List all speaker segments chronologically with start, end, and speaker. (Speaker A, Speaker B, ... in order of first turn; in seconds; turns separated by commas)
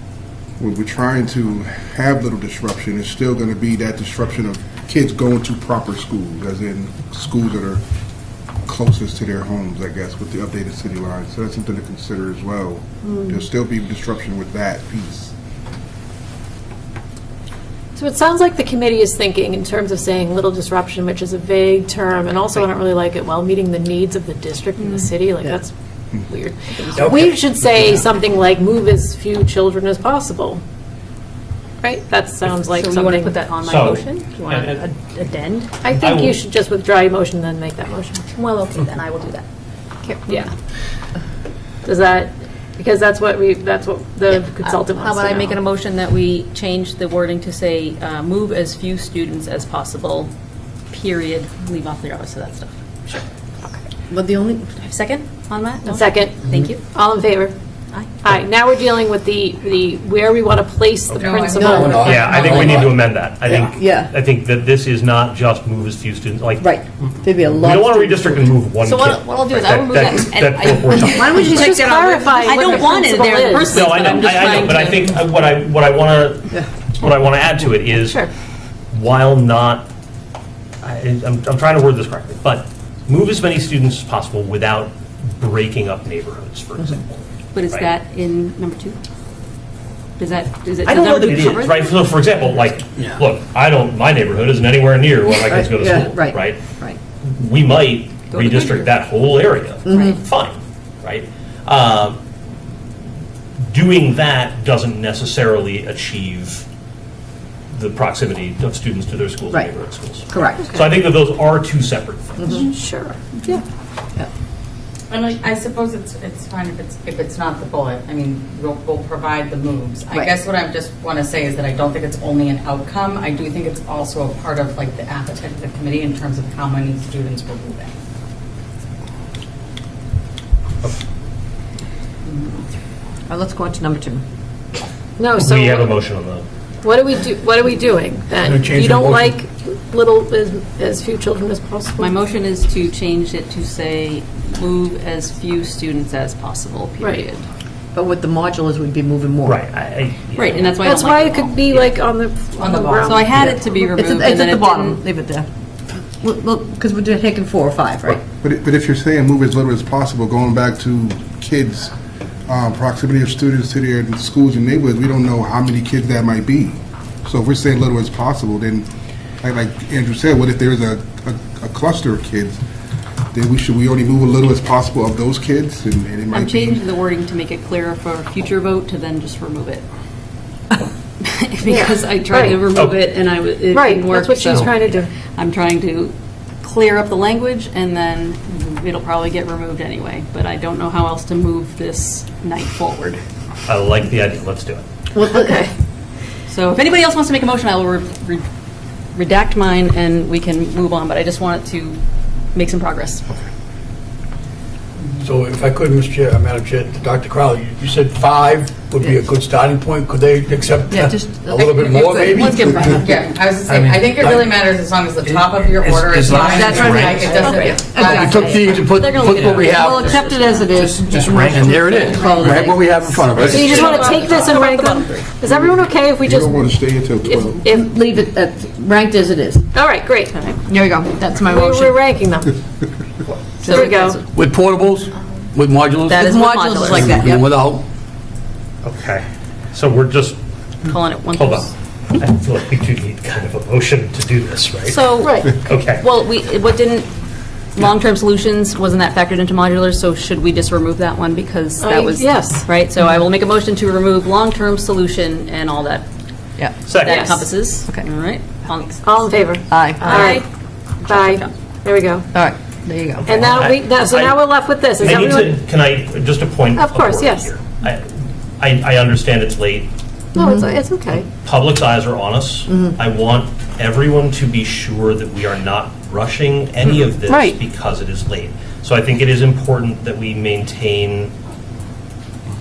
Speaker A: 0.6-7.8, Speaker A: 8.6-15.3, Speaker B: 17.9-25.7, Speaker C: 24.8-25.1, Speaker B: 26.3-30.6, Speaker D: 27.1-27.3, Speaker B: 31.8-33.3, Speaker C: 32.6-35.8, Speaker E: 33.5-34.9, Speaker B: 35.8-38.4, Speaker E: 35.9-36.4, Speaker C: 38.4-39.4, Speaker B: 40.1-40.5, Speaker C: 40.2-40.5, Speaker B: 41.8-45.6, Speaker C: 44.6-50.3, Speaker C: 50.9-53.2, Speaker F: 54.1-54.7, Speaker C: 54.8-56.8, Speaker B: 55.9-57.5, Speaker C: 57.9-58.2, Speaker B: 58.2-62.4, Speaker G: 61.1-63.1, Speaker F: 61.5-62.0, Speaker E: 62.0-66.7, Speaker D: 62.4-62.9, Speaker F: 63.5-64.1, Speaker F: 66.6-68.5, Speaker E: 67.5-71.7, Speaker C: 68.8-75.2, Speaker F: 71.1-72.8, Speaker B: 71.5-73.9, Speaker E: 73.6-78.2, Speaker B: 78.0-78.3, Speaker E: 78.9-79.9, Speaker E: 80.8-87.1, Speaker C: 87.5-89.0, Speaker E: 87.6-87.9, Speaker C: 90.2-92.0, Speaker E: 90.8-96.6, Speaker F: 95.4-97.0, Speaker E: 97.2-102.2, Speaker C: 98.3-99.0, Speaker F: 99.8-100.2, Speaker C: 99.9-100.1, Speaker E: 103.7-106.7, Speaker E: 107.7-112.5, Speaker F: 110.3-110.7, Speaker F: 112.4-112.7, Speaker B: 112.5-113.6, Speaker G: 115.1-127.9, Speaker G: 132.2-132.7, Speaker F: 133.3-134.2, Speaker B: 135.2-136.0, Speaker E: 135.4-136.4, Speaker B: 136.8-142.1, Speaker D: 138.4-139.4, Speaker C: 142.0-147.4, Speaker B: 147.0-147.2, Speaker F: 147.9-149.6, Speaker E: 149.4-150.7, Speaker C: 150.3-152.0, Speaker B: 150.8-153.9, Speaker G: 152.6-153.3, Speaker C: 153.0-155.0, Speaker F: 153.3-155.5, Speaker F: 156.2-158.2, Speaker A: 158.4-161.9, Speaker A: 162.5-168.9, Speaker A: 169.4-172.6, Speaker A: 173.3-176.8, Speaker C: 176.3-179.8, Speaker C: 181.2-193.2, Speaker B: 181.6-182.6, Speaker E: 182.7-183.0, Speaker B: 183.7-185.1, Speaker E: 193.7-194.8, Speaker F: 195.2-195.6, Speaker B: 195.2-195.6, Speaker C: 196.5-198.4, Speaker C: 199.1-202.0, Speaker C: 202.5-203.3, Speaker G: 205.0-205.2, Speaker D: 205.2-213.1, Speaker F: 210.9-213.1, Speaker C: 212.4-213.0, Speaker G: 212.5-220.2, Speaker D: 214.1-214.6, Speaker F: 216.3-218.7, Speaker C: 217.2-221.0, Speaker D: 218.0-220.0, Speaker F: 219.6-223.4, Speaker E: 221.3-221.7, Speaker D: 221.5-224.3, Speaker C: 221.9-222.5, Speaker B: 223.4-226.7, Speaker C: 223.5-225.3, Speaker A: 225.4-227.6, Speaker B: 227.2-227.9, Speaker F: 227.6-229.7, Speaker B: 229.7-230.4, Speaker C: 230.3-230.6, Speaker F: 230.7-232.0, Speaker B: 231.4-232.6, Speaker C: 233.3-234.2, Speaker F: 233.6-233.9, Speaker B: 233.7-234.2, Speaker D: 234.3-237.8, Speaker C: 236.1-237.2, Speaker F: 236.1-237.5, Speaker E: 238.8-240.4, Speaker C: 240.8-241.7, Speaker E: 241.3-246.0, Speaker C: 244.8-247.1, Speaker B: 245.2-245.6, Speaker C: 247.7-256.1, Speaker B: 251.8-252.7, Speaker E: 256.9-257.3, Speaker C: 256.9-259.4, Speaker B: 257.0-257.5, Speaker B: 259.0-260.4, Speaker F: 259.7-260.4, Speaker C: 260.0-260.5, Speaker C: 261.0-261.5, Speaker B: 261.1-262.2, Speaker F: 262.3-263.3, Speaker B: 263.2-265.6, Speaker E: 263.3-268.0, Speaker B: 266.7-267.5, Speaker E: 268.6-269.9, Speaker F: 270.3-270.8, Speaker B: 270.3-271.3, Speaker E: 271.3-281.3, Speaker F: 272.7-273.0, Speaker B: 277.3-277.6